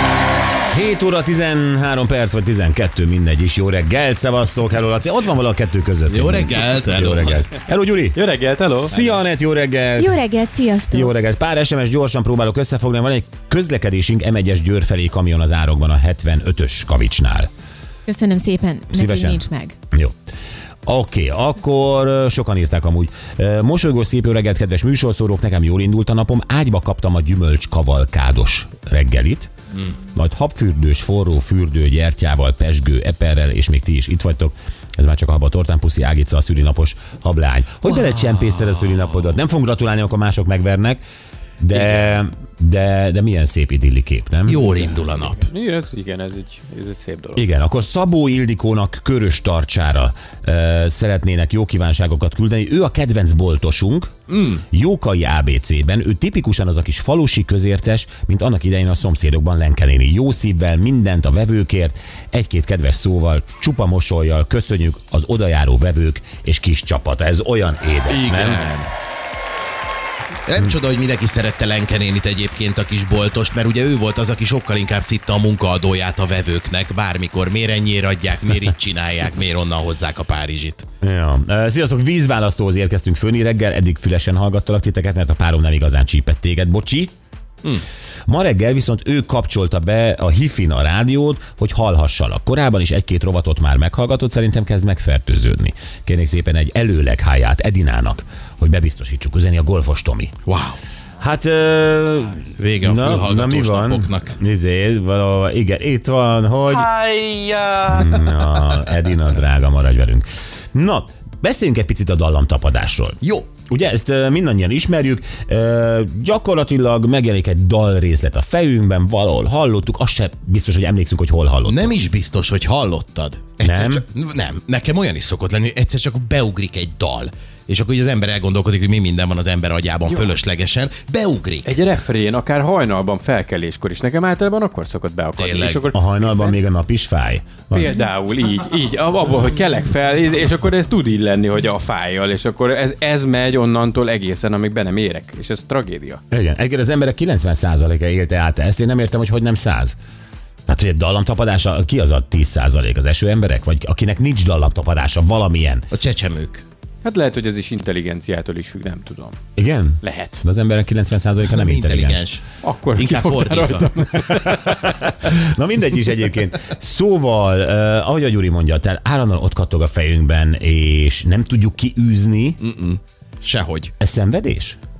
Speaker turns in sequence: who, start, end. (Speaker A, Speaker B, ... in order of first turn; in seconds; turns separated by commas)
Speaker A: 0.7-8.2, Speaker B: 6.1-7.5, Speaker C: 8.1-8.9, Speaker A: 8.8-10.2, Speaker D: 10.0-11.1, Speaker A: 10.9-17.5, Speaker D: 18.1-19.8, Speaker A: 18.9-20.1, Speaker A: 20.9-29.5, Speaker A: 30.1-41.0, Speaker B: 37.9-39.0, Speaker A: 41.6-44.7, Speaker B: 41.7-42.2, Speaker B: 44.5-45.4, Speaker C: 44.8-47.4, Speaker A: 47.4-54.1, Speaker B: 54.3-54.6, Speaker A: 54.7-68.6, Speaker B: 68.1-68.9, Speaker B: 70.5-80.8, Speaker A: 81.0-87.1, Speaker A: 88.3-100.3, Speaker B: 100.5-100.8, Speaker A: 101.2-106.9, Speaker B: 102.6-104.4, Speaker C: 107.1-107.6, Speaker A: 107.8-121.9, Speaker B: 113.2-113.5, Speaker B: 121.7-131.8, Speaker A: 123.6-124.0, Speaker C: 131.7-136.6, Speaker B: 135.4-135.8, Speaker A: 135.9-137.9, Speaker C: 137.7-146.2, Speaker A: 146.3-150.0, Speaker A: 150.7-155.9, Speaker B: 155.9-156.6, Speaker C: 157.0-159.4, Speaker A: 159.6-162.2, Speaker C: 160.0-160.4, Speaker B: 161.4-162.4, Speaker C: 162.6-164.8, Speaker B: 162.9-163.9, Speaker A: 164.4-172.6, Speaker B: 172.6-173.9, Speaker A: 174.0-174.8